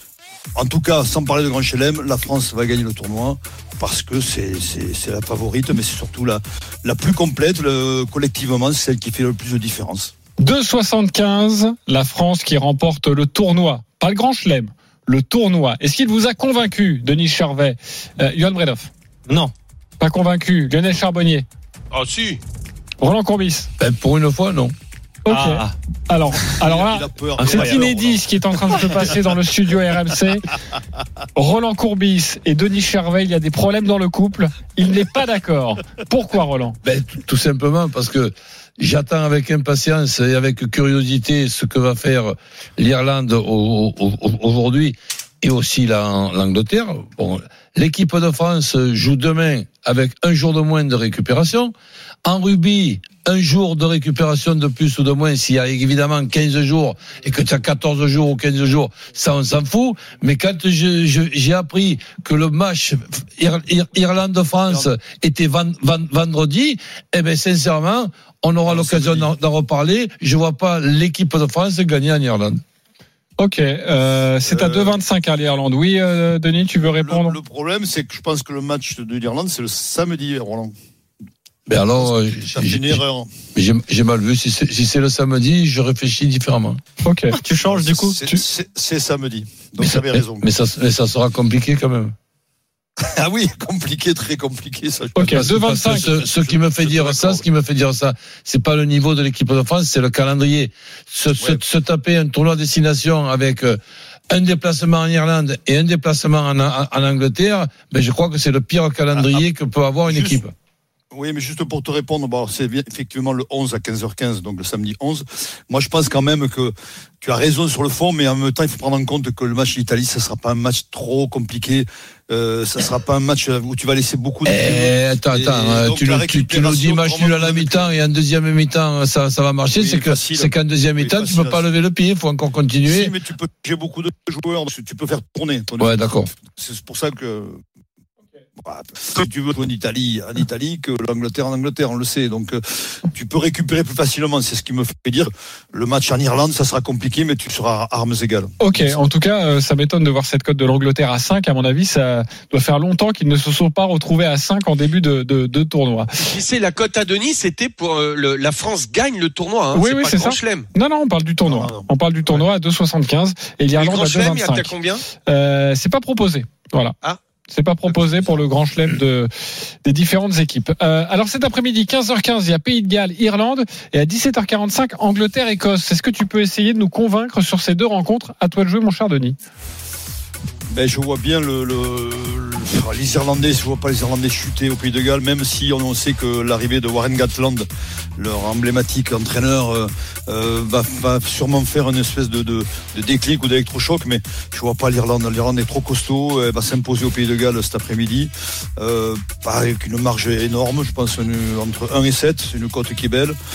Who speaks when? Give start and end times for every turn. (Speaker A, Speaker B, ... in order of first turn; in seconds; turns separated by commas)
Speaker A: 0.5-10.1, Speaker B: 10.4-18.9, Speaker C: 19.3-19.5, Speaker B: 20.0-21.4, Speaker D: 21.9-22.4, Speaker B: 23.0-23.7, Speaker E: 23.8-24.7, Speaker B: 25.2-30.5, Speaker C: 25.3-25.7, Speaker A: 26.6-29.2, Speaker C: 27.4-27.9, Speaker B: 31.4-36.8, Speaker E: 36.8-51.7, Speaker E: 52.2-72.6, Speaker A: 68.7-69.3, Speaker B: 73.4-77.3, Speaker A: 74.5-75.0, Speaker A: 76.9-80.7, Speaker E: 81.7-83.0, Speaker A: 81.9-83.3, Speaker E: 83.5-86.8, Speaker B: 87.0-87.4, Speaker C: 87.3-88.2, Speaker A: 87.5-90.5, Speaker E: 89.8-92.1, Speaker A: 93.2-97.4, Speaker B: 95.2-96.1, Speaker E: 95.2-103.8, Speaker E: 104.3-110.5, Speaker A: 109.1-109.4, Speaker A: 110.1-110.4, Speaker A: 111.1-127.9, Speaker E: 124.4-133.1, Speaker A: 129.7-131.6, Speaker A: 132.8-137.6, Speaker E: 135.8-136.3, Speaker A: 138.6-149.0, Speaker B: 148.6-156.1, Speaker D: 156.2-160.7, Speaker B: 159.7-164.7, Speaker A: 161.4-162.4, Speaker D: 163.8-165.0, Speaker B: 165.2-166.9, Speaker B: 167.5-169.3, Speaker B: 169.8-179.4, Speaker A: 180.7-203.4